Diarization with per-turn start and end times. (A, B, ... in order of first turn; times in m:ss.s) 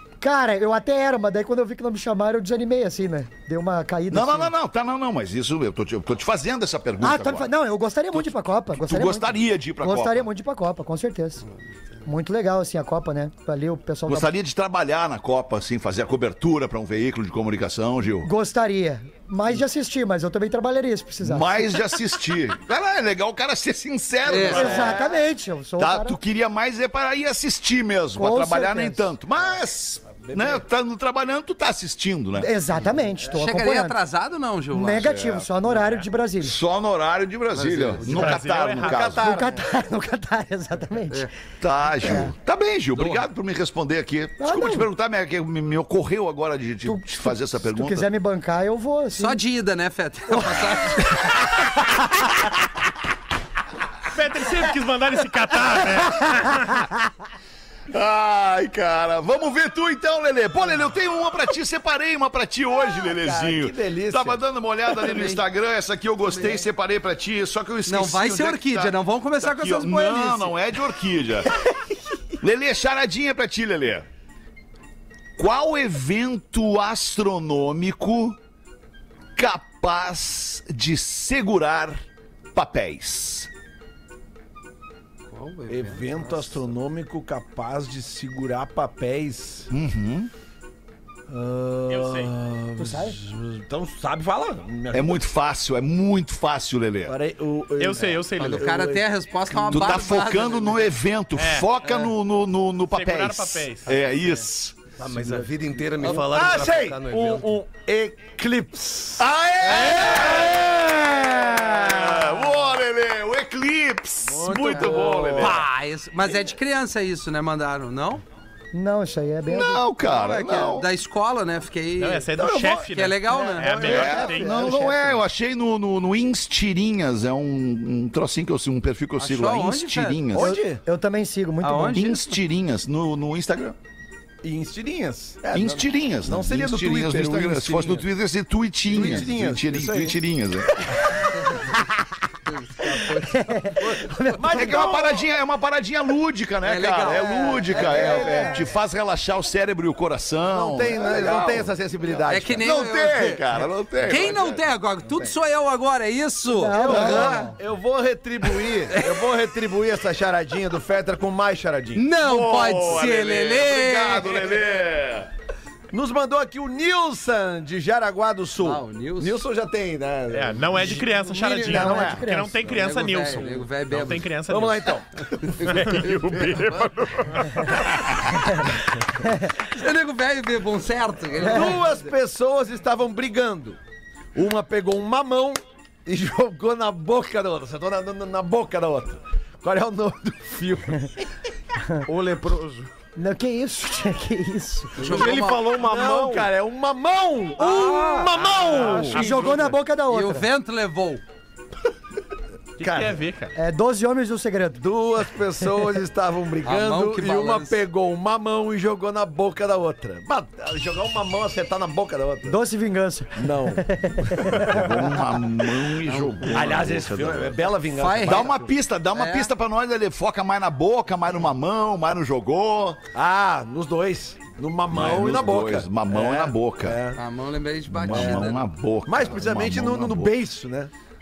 0:00.2-0:04.5 A
0:04.1-0:07.5 B
0:07.0-0:11.4 A
0:08.1-0:10.3 B
0:12.0-0:14.3 A
0:14.1-0:18.3 B
0:18.2-0:21.8 A
0:21.2-0:25.0 B
0:24.2-0:24.9 C
0:24.4-0:26.2 A
0:25.8-0:32.5 B
0:28.2-0:29.1 A
0:30.3-0:30.6 D
0:32.4-0:34.0 A
0:33.3-0:35.1 C
0:34.7-0:36.6 A
0:35.0-0:35.5 B
0:36.4-0:39.4 B
0:37.5-0:38.4 C
0:38.0-0:39.3 E
0:38.2-0:39.6 D
0:39.2-0:41.3 A
0:41.6-0:48.1 B
0:42.0-0:42.3 A
0:43.0-0:43.2 C
0:44.4-0:44.9 A
0:46.8-0:49.4 A
0:49.1-0:51.4 C
0:54.1-0:56.9 E
0:57.9-1:11.5 B
1:03.1-1:04.4 D
1:05.0-1:05.4 C
1:06.3-1:06.6 C
1:07.9-1:10.5 C
1:12.4-1:14.1 B
1:15.4-1:18.4 B
1:19.4-1:23.5 B
1:25.3-1:26.6 C
1:25.7-1:29.7 D
1:29.7-1:30.3 B
1:31.3-1:35.2 D
1:31.9-1:32.3 E
1:32.8-1:33.2 A
1:34.9-1:37.2 B
1:37.1-1:40.0 D
1:37.8-1:38.7 E
1:38.4-1:40.8 C
1:39.7-1:44.8 B
1:41.4-1:41.7 E
1:42.9-1:44.3 E
1:45.0-1:47.6 F
1:45.1-1:45.4 D
1:46.0-1:52.4 D
1:49.2-1:55.6 B
1:54.3-1:55.7 D
1:54.7-1:58.2 C
1:58.7-1:59.8 A
1:59.5-2:00.9 B
2:00.0-2:03.9 C
2:02.0-2:04.6 E
2:02.4-2:05.1 D
2:03.8-2:10.5 B
2:09.2-2:10.3 C
2:10.3-2:10.8 D
2:10.4-2:12.1 A
2:11.6-2:12.3 C
2:11.9-2:13.8 B
2:14.4-2:18.1 D
2:15.5-2:21.0 B
2:18.9-2:20.2 D
2:19.0-2:19.2 C
2:21.4-2:21.7 C
2:22.5-2:23.7 C
2:23.1-2:24.8 A
2:23.8-2:25.3 D
2:24.5-2:31.7 B
2:26.6-2:28.4 C
2:27.0-2:28.6 D
2:27.8-2:28.6 A
2:30.5-2:32.7 D
2:31.2-2:31.5 C
2:32.3-2:33.4 C
2:32.6-2:34.6 B
2:34.0-2:37.3 C
2:36.5-2:37.6 A
2:36.7-2:42.1 D
2:38.9-2:39.3 C
2:42.0-2:44.5 C
2:42.2-2:45.3 B
2:45.9-2:52.2 D
2:48.6-2:49.4 C
2:50.3-2:55.0 E
2:51.6-2:52.7 A
2:52.7-2:54.3 C
2:54.5-2:56.3 D
2:55.6-2:58.2 E
2:59.5-3:01.9 C
3:01.4-3:03.8 D
3:01.4-3:01.7 A
3:04.3-3:11.1 D
3:12.2-3:12.8 F
3:12.2-3:12.5 D
3:13.2-3:15.0 A
3:15.0-3:16.5 F
3:15.0-3:15.7 C
3:15.0-3:19.3 D
3:17.6-3:18.3 C
3:18.4-3:19.8 E
3:18.8-3:19.1 F
3:19.0-3:20.5 A
3:20.0-3:21.2 C
3:22.8-3:23.5 E
3:22.8-3:23.2 D
3:23.6-3:24.9 A
3:24.8-3:32.6 D
3:26.6-3:27.8 C
3:32.5-3:34.9 A
3:33.4-3:34.6 D
3:34.6-3:37.6 B
3:36.1-3:36.8 C
3:36.5-3:38.7 D
3:37.9-3:38.5 C
3:38.2-3:43.0 B
3:39.1-3:39.5 C
3:43.1-3:47.2 D
3:44.9-3:47.0 B
3:47.2-3:48.6 C
3:47.9-3:50.4 B
3:48.1-3:48.5 D
3:49.1-3:50.9 D